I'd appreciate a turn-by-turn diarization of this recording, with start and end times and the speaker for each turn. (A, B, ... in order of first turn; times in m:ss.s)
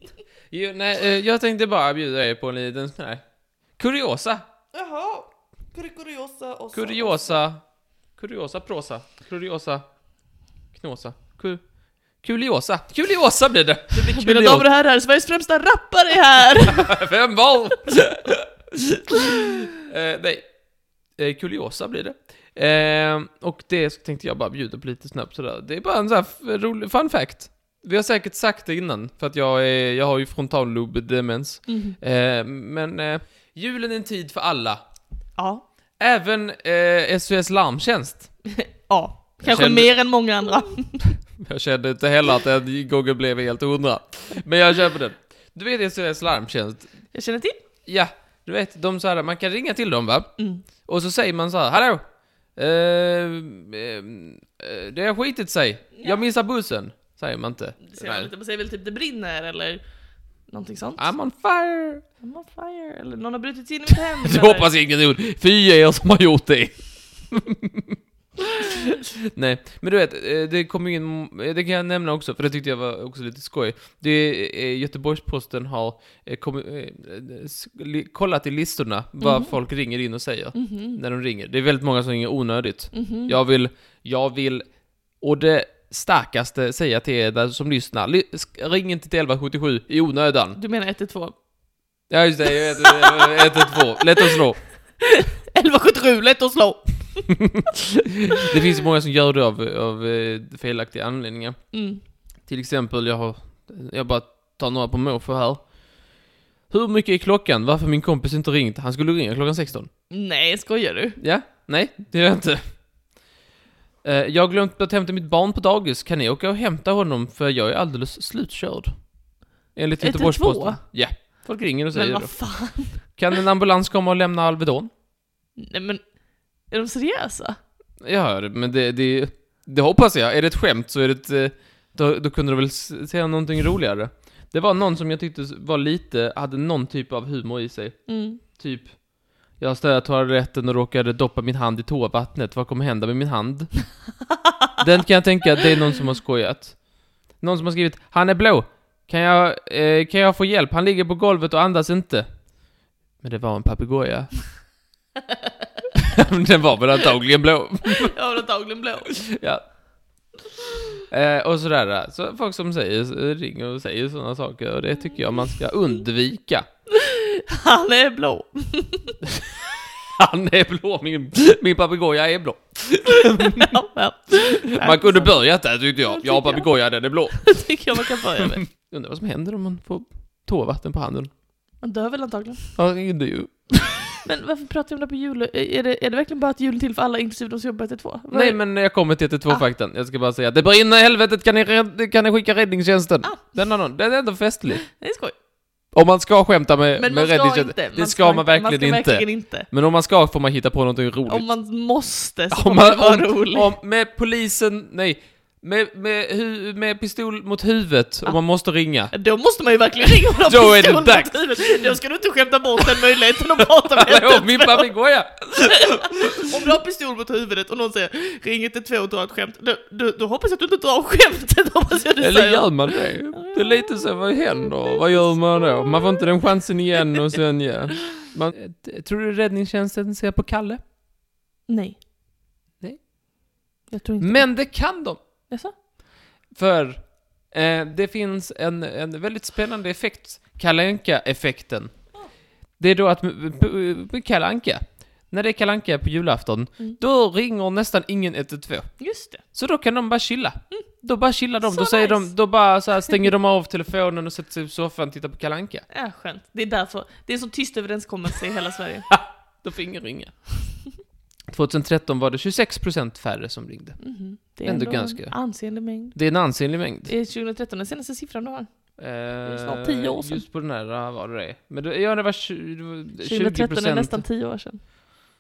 0:00.5-0:03.2 A
0:03.8-0:04.4 A
0:04.7-0:07.4 B
0:06.7-0:07.6 A
0:08.2-0:09.8 A
0:10.7-0:11.6 A
0:12.2-0:14.7 A
0:13.9-0:17.0 B
0:16.7-0:20.6 A
0:21.1-0:34.8 A
0:31.7-0:32.0 B
0:35.4-0:35.6 B
0:36.0-0:38.3 A
0:38.6-0:41.0 B
0:39.4-0:40.0 A
0:41.4-0:46.9 A
0:47.1-0:47.6 B
0:47.9-0:50.3 A
0:50.4-0:50.7 B
0:50.8-0:52.0 A
0:52.6-0:58.3 A
0:57.9-0:59.8 B
1:00.5-1:01.1 B
1:01.0-1:02.0 A
1:02.2-1:04.7 B
1:04.2-1:30.6 A
1:19.2-1:19.6 B
1:20.5-1:21.0 B
1:22.9-1:23.4 B
1:30.6-1:31.3 B
1:32.1-1:34.6 A
1:32.6-1:34.4 B
1:35.0-1:37.3 B
1:37.4-1:41.6 A
1:41.7-1:42.0 B
1:42.5-1:45.7 A
1:46.7-1:49.9 A
1:50.1-1:51.2 B
1:51.2-1:52.6 A
1:54.0-1:59.1 A
1:59.7-2:04.9 A
2:00.0-2:00.8 B
2:01.9-2:03.2 B
2:05.6-2:06.0 B
2:06.7-2:07.6 B
2:08.0-2:23.9 A
2:18.1-2:18.4 B
2:24.8-2:32.5 A
2:33.2-2:34.3 A
2:36.0-2:38.1 A
2:37.8-2:39.1 B
2:39.1-2:39.6 A
2:41.1-2:46.7 A
2:46.9-2:49.2 B
2:50.2-2:53.8 A
2:53.4-2:58.6 B
2:54.4-3:01.3 A
3:01.8-3:02.8 B
3:02.8-3:04.2 A
3:04.2-3:08.6 B
3:08.3-3:14.8 A
3:14.8-3:15.3 B
3:15.9-3:21.5 A
3:17.0-3:19.7 B
3:21.3-3:23.8 B
3:22.5-3:29.1 A
3:29.1-3:34.9 B
3:30.4-3:31.9 A
3:32.8-3:36.5 A
3:35.7-3:46.2 B
3:42.2-3:50.8 A
3:51.7-3:52.0 B
3:53.9-3:54.7 B
3:54.2-3:55.2 A
3:56.5-4:01.9 A
4:02.8-4:09.0 A
4:09.0-4:09.4 B
4:09.5-4:15.9 A
4:11.6-4:12.3 B
4:15.9-4:19.1 B
4:19.1-4:20.4 A
4:21.5-4:24.0 A
4:24.0-4:26.2 B
4:24.6-4:25.5 A
4:26.1-4:27.1 A
4:27.0-4:28.7 B
4:29.0-4:34.2 A
4:29.4-4:30.4 B
4:33.2-4:34.8 B